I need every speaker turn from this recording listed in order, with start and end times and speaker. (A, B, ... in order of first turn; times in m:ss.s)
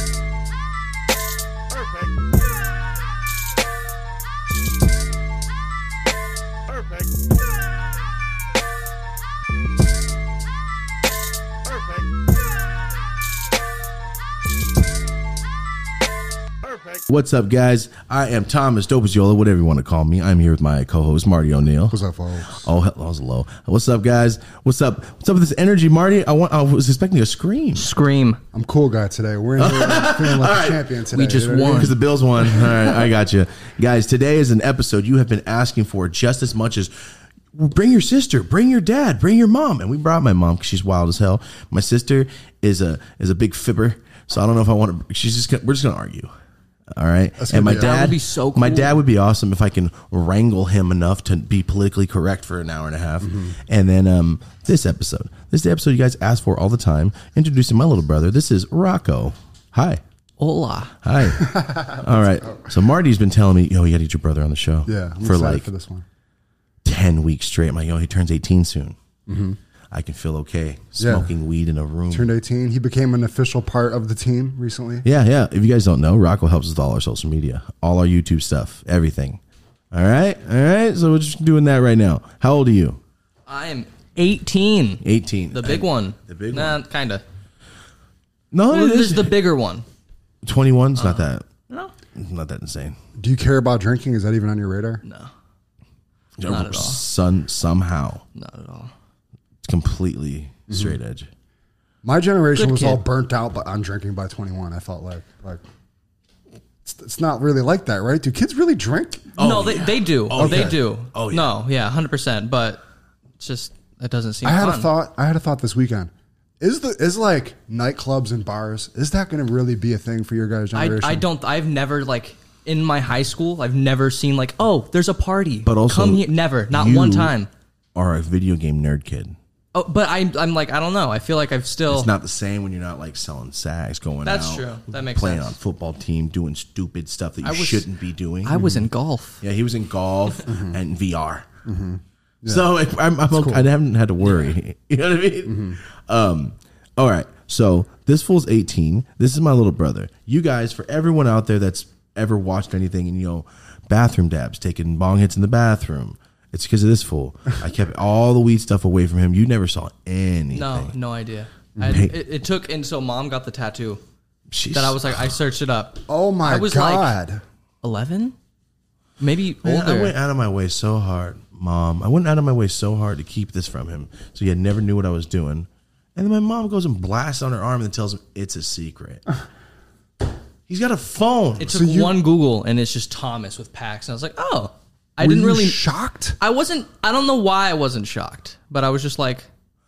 0:17.0-0:22.0 A
0:21.9-0:22.7 B
0:22.5-0:27.9 A
0:27.8-0:28.4 C
0:28.5-0:33.1 B
0:29.6-0:30.9 A
0:31.1-0:32.0 C
0:31.6-0:36.9 A
0:37.5-0:46.3 A
0:46.9-1:00.0 A
0:47.4-0:47.9 B
0:47.8-0:49.0 C
0:53.2-0:53.5 B
1:00.4-1:01.0 C
1:01.0-1:05.7 A
1:01.2-1:02.7 B
1:04.9-1:06.0 B
1:06.8-1:09.0 A
1:09.3-1:09.6 B
1:09.9-1:12.3 A
1:11.0-1:11.3 B
1:12.1-1:15.0 B
1:15.0-1:19.4 A
1:19.9-1:23.0 A
1:23.5-1:27.2 C
1:25.0-1:26.8 A
1:28.5-1:29.4 A
1:28.7-1:29.8 C
1:30.4-1:31.5 A
1:31.0-1:31.9 C
1:32.2-1:33.0 A
1:33.2-1:35.0 B
1:35.0-1:35.3 C
1:36.4-1:38.2 A
1:36.4-1:37.0 C
1:38.4-1:38.9 C
1:39.6-1:41.3 A
1:40.7-1:41.0 B
1:42.0-1:45.6 B
1:42.6-1:43.0 C
1:46.8-1:49.4 B
1:49.4-1:51.6 A
1:49.4-1:52.8 C
1:50.4-1:50.8 B
1:53.4-1:54.9 C
1:54.4-2:01.3 B
2:00.8-2:07.5 C
2:05.6-2:07.3 A
2:08.0-2:09.4 A
2:09.7-2:12.1 C
2:11.9-2:18.6 A
2:14.2-2:15.6 C
2:17.4-2:17.9 C
2:18.4-2:19.4 C
2:18.6-2:18.9 B
2:19.4-2:21.5 A
2:20.5-2:20.8 B
2:21.6-2:22.7 B
2:22.5-2:40.9 A
2:23.3-2:23.7 B
2:24.2-2:24.5 C
2:25.5-2:25.8 B
2:40.5-2:44.0 C
2:41.8-2:42.1 B
2:41.8-2:42.2 A
2:44.5-2:45.4 A
2:44.7-2:47.1 C
2:46.1-2:47.4 B
2:47.8-2:48.4 C
2:49.2-2:50.2 C
2:49.6-2:59.2 A
3:00.7-3:01.6 A
3:01.6-3:05.8 C
3:01.6-3:02.2 B
3:05.2-3:06.4 B
3:06.4-3:09.5 C